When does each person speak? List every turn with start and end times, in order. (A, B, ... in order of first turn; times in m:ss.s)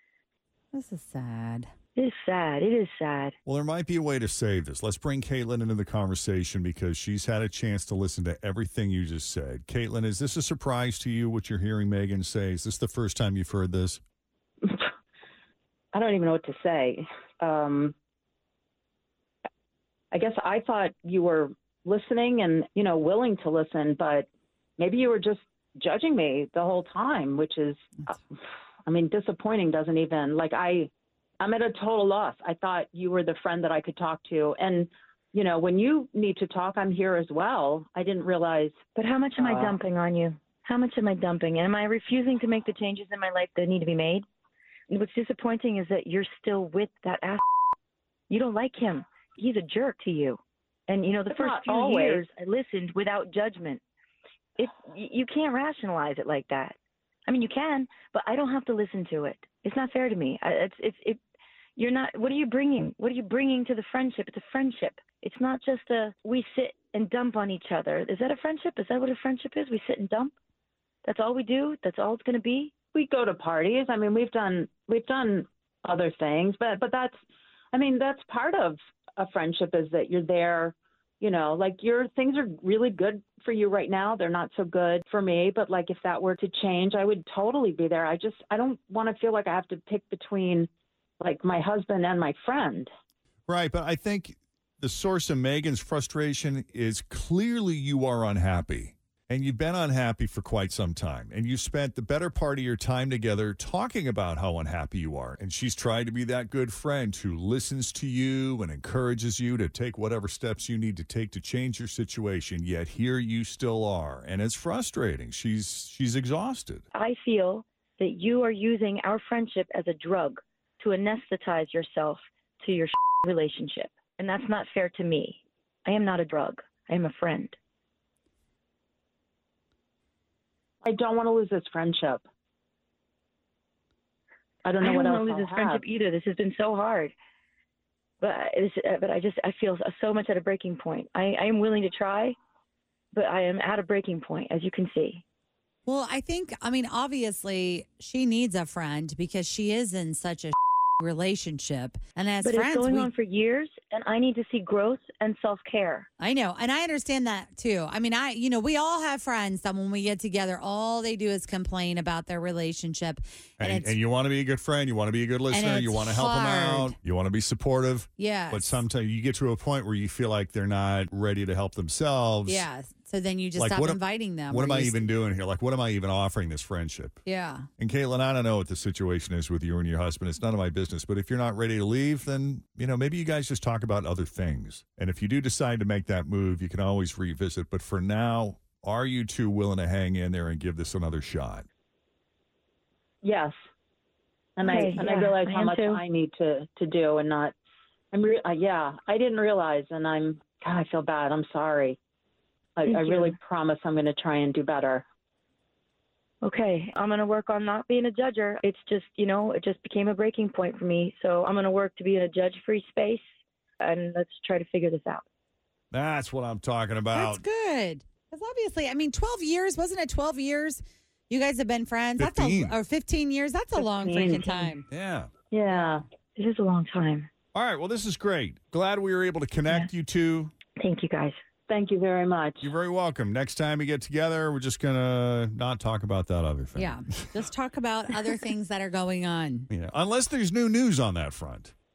0:00.7-0:01.7 A
0:02.0-0:03.4 B
0:03.5-0:14.0 C
0:15.9-0:18.0 D
0:20.1-0:24.3 D
0:24.8-0:28.1 D
0:28.9-0:38.8 D
0:39.0-0:44.3 B
0:39.4-0:39.8 D
0:44.9-0:47.4 B
0:48.3-0:53.8 B
0:51.3-0:52.3 D
0:54.6-0:56.8 B
0:57.3-1:01.2 B
1:01.8-1:10.3 B
1:11.0-1:12.8 B
1:12.9-1:17.2 D
1:17.7-1:30.7 D
1:31.2-1:32.9 D
1:33.5-1:56.8 C
1:56.9-2:07.6 B
2:10.8-2:12.2 D
2:14.6-2:15.8 D
2:14.8-2:17.1 B
2:18.2-2:22.4 B
2:23.1-2:25.2 B
2:25.9-2:33.1 A
2:32.4-2:36.1 B
2:36.2-2:44.0 A
2:43.6-2:52.7 C
2:45.5-2:47.0 A
2:48.2-2:48.8 A
2:52.5-2:55.1 A
2:53.6-2:57.2 C
2:57.3-2:57.7 A
2:57.8-3:11.7 C
3:13.2-3:13.6 D
3:14.6-3:17.5 D
3:14.6-3:16.0 B
3:18.1-3:22.0 D
3:22.8-3:25.0 D
3:22.8-3:23.4 B
3:26.4-3:33.3 B
3:33.8-3:35.2 B
3:35.9-3:37.4 C
3:37.1-3:44.9 A
3:42.2-3:42.8 C
3:44.0-3:44.5 D
3:44.9-3:45.3 C
3:45.5-3:46.0 D
3:46.4-3:47.3 B
3:47.5-3:50.5 C
3:50.8-3:51.4 B
3:51.7-3:52.6 D
3:52.6-3:57.3 C
3:56.8-3:59.7 A
3:59.7-4:01.7 C